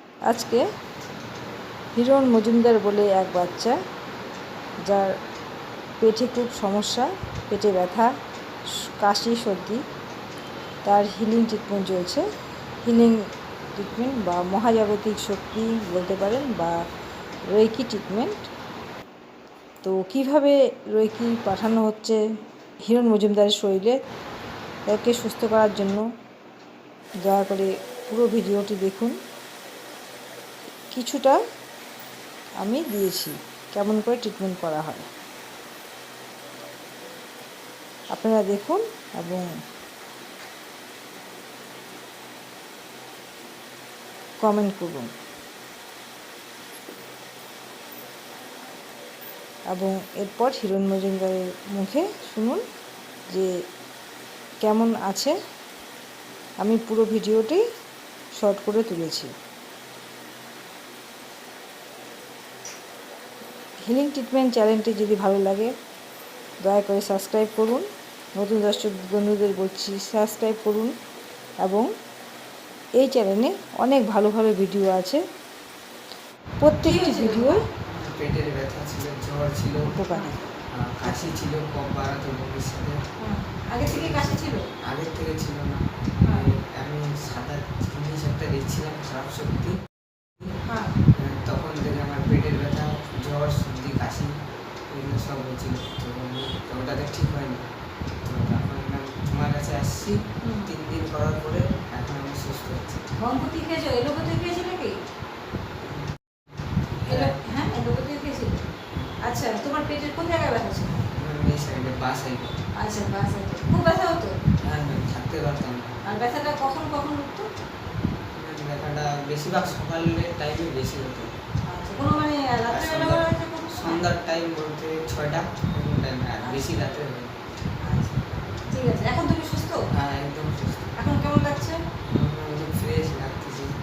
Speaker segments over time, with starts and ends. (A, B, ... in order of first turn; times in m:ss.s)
0:00.3-0:00.6 A
0:02.0-0:03.8 A
0:06.0-0:08.1 A
0:08.8-0:09.8 A
0:10.8-0:12.2 A
0:12.8-0:13.2 A
0:13.8-0:16.8 A
0:17.5-0:18.5 A
0:19.8-0:22.2 A
0:22.9-0:24.0 A
0:24.9-0:26.0 A
0:27.3-0:29.2 A
0:30.9-0:31.4 A
0:32.6-0:35.1 A
0:38.1-0:39.5 A
0:44.4-0:45.1 A
0:49.7-0:52.6 A
0:54.6-0:55.4 A
0:56.6-0:57.6 A
0:58.4-0:59.3 A
1:03.8-1:05.7 A
1:06.6-1:10.9 A
1:11.6-1:11.9 A
1:13.0-1:15.2 A
1:16.6-1:17.6 A
1:16.8-1:17.6 B
1:17.9-1:19.8 C
1:19.9-1:20.4 A
1:20.8-1:23.0 C
1:23.2-1:24.6 B
1:23.8-1:29.8 C
1:31.1-1:34.3 C
1:34.9-1:37.6 C
1:38.2-1:43.0 C
1:40.4-1:40.7 B
1:43.1-1:44.9 B
1:45.8-1:46.1 C
1:47.1-1:47.4 C
1:47.1-1:48.6 B
1:49.2-1:51.0 B
1:51.1-1:52.6 C
1:52.8-1:54.4 B
1:54.6-1:55.9 C
1:56.1-1:57.5 B
1:58.4-2:01.3 C
2:01.7-2:04.0 B
2:02.7-2:07.3 C
2:06.4-2:06.8 B
2:07.8-2:09.8 B
2:09.9-2:10.9 C
2:11.0-2:11.8 B
2:12.1-2:13.7 C